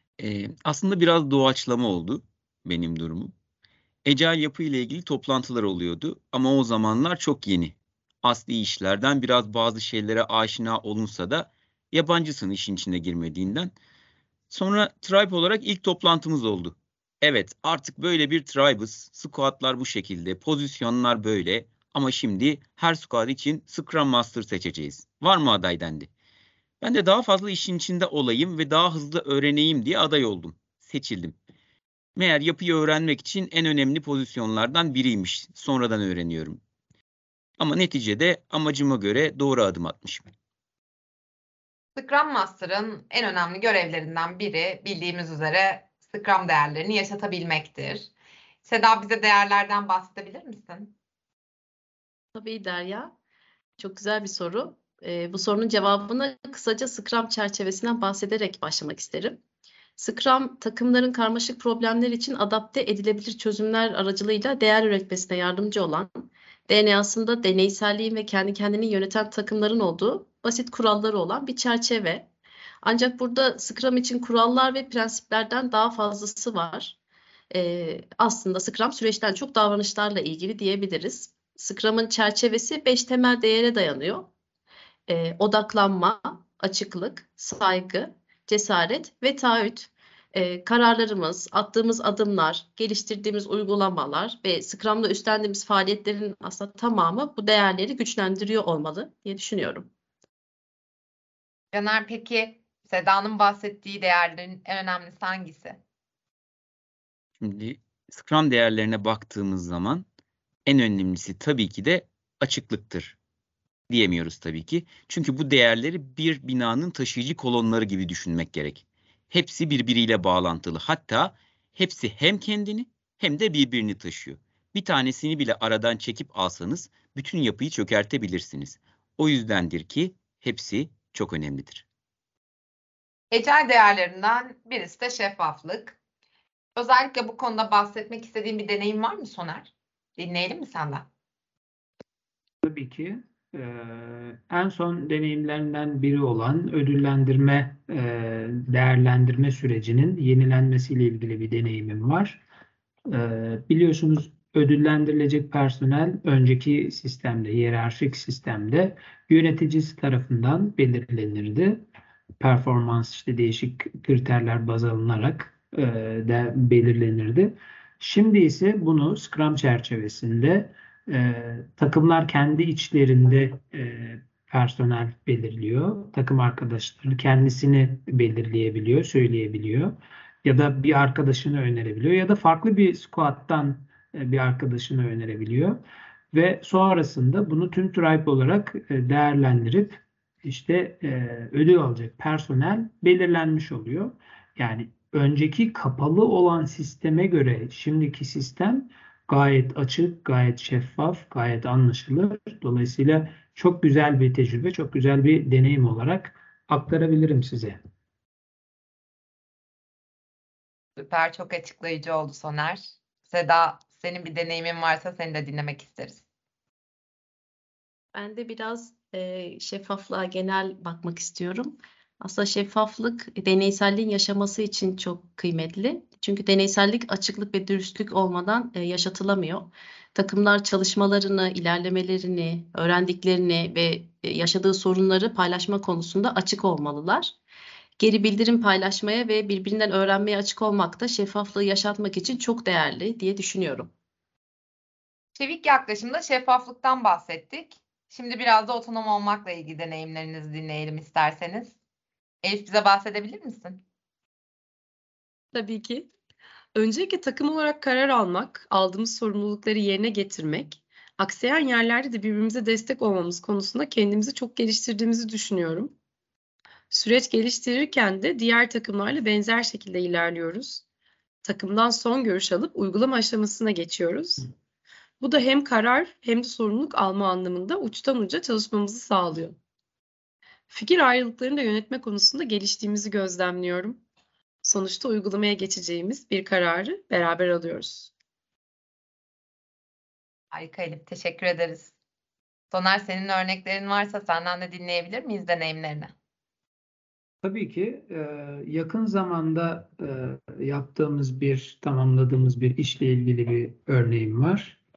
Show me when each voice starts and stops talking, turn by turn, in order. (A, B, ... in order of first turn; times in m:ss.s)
0:00.2-0:03.3 A
0:04.1-0:13.7 A
0:14.5-0:26.1 A
0:26.8-0:31.4 A
0:32.2-0:36.6 A
0:37.6-0:40.3 A
0:42.0-0:48.1 B
0:48.6-0:50.9 B
0:52.3-0:53.1 C
0:53.8-0:59.4 C
1:00.0-1:12.3 C
1:12.8-1:17.0 C
1:17.5-1:24.3 C
1:25.1-1:39.9 C
1:41.7-1:45.8 B
1:47.4-1:50.0 A
1:50.7-1:53.2 A
1:53.9-2:11.9 A
2:13.3-2:16.0 B
2:16.8-2:21.1 B
2:22.6-2:32.4 D
2:33.1-2:41.8 D
2:42.4-3:05.8 D
3:06.3-3:27.8 D
3:31.0-3:36.2 B
3:38.1-3:57.4 C
3:58.0-4:03.9 C
4:05.4-4:11.8 B
4:12.4-4:13.8 B
4:15.5-4:16.1 E
4:16.8-4:26.0 E
4:26.9-4:30.8 E
4:31.4-4:34.5 E
4:35.2-4:39.6 E
4:40.7-4:44.0 E
4:44.6-4:48.1 E
4:50.5-4:51.9 B
4:52.7-4:56.1 B
4:57.4-5:04.8 D